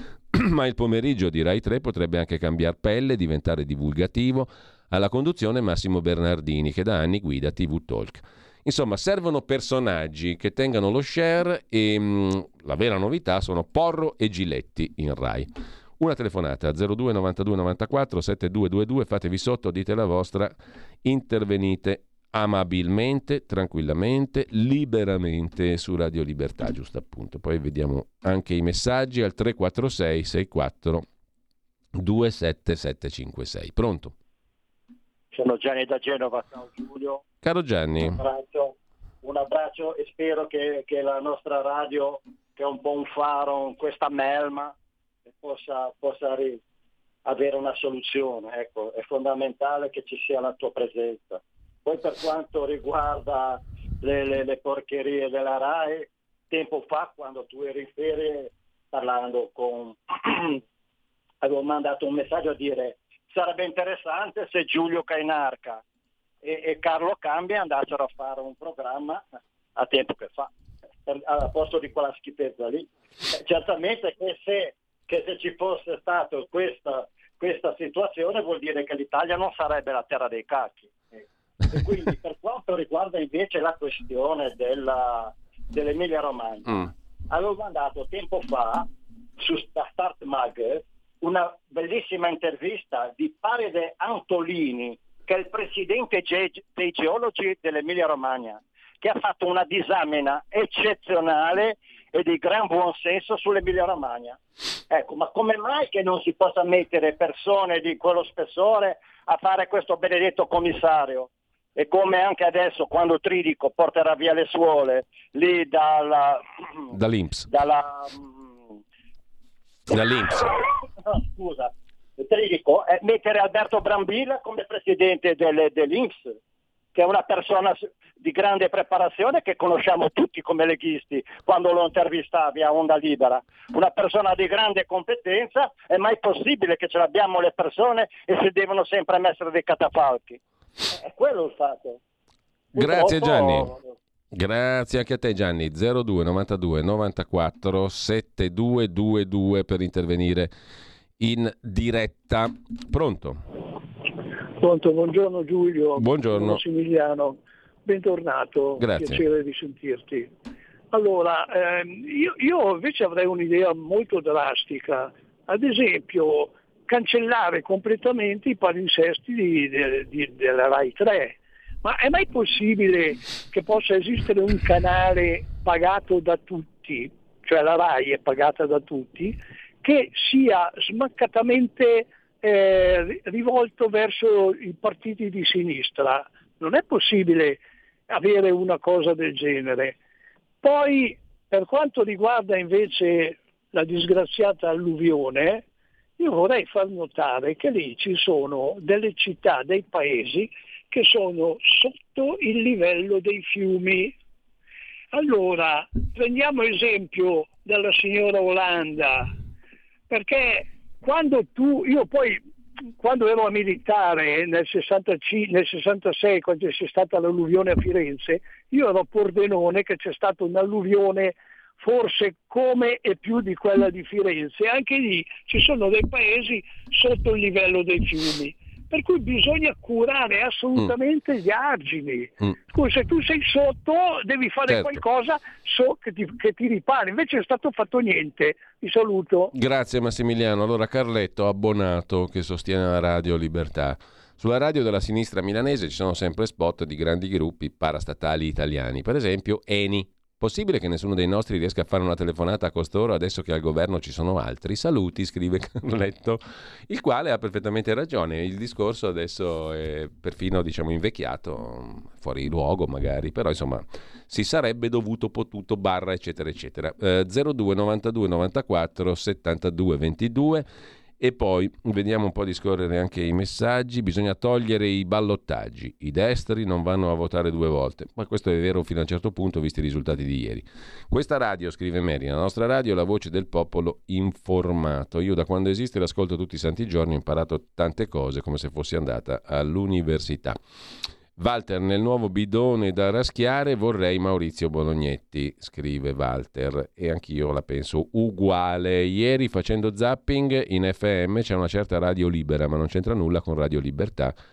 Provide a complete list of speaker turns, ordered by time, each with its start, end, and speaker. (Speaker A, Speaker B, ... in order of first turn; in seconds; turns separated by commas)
Speaker A: 0.3-15.5, Speaker A: 16.0-31.1, Speaker A: 31.9-34.1, Speaker B: 35.3-37.2, Speaker A: 37.4-38.2, Speaker B: 38.2-44.7, Speaker B: 45.3-46.6, Speaker B: 47.2-60.6, Speaker B: 61.4-65.8, Speaker B: 66.4-69.2, Speaker B: 69.8-70.5, Speaker B: 71.0-88.9, Speaker B: 89.4-104.4, Speaker B: 104.9-116.4, Speaker A: 116.9-117.5, Speaker B: 117.5-118.7, Speaker A: 119.9-120.5, Speaker B: 121.0-126.4, Speaker B: 126.9-140.4, Speaker B: 140.9-142.0, Speaker A: 142.7-143.7, Speaker B: 142.8-143.8, Speaker A: 144.3-150.5, Speaker A: 151.2-153.4, Speaker C: 154.6-160.3, Speaker A: 155.9-156.6, Speaker A: 158.8-159.2, Speaker C: 160.9-189.9, Speaker C: 190.6-195.6, Speaker C: 196.2-204.1, Speaker C: 205.1-209.3, Speaker C: 210.1-212.4, Speaker C: 213.0-239.5, Speaker A: 234.7-235.0, Speaker A: 239.5-270.6, Speaker A: 271.2-290.6, Speaker A: 291.4-304.3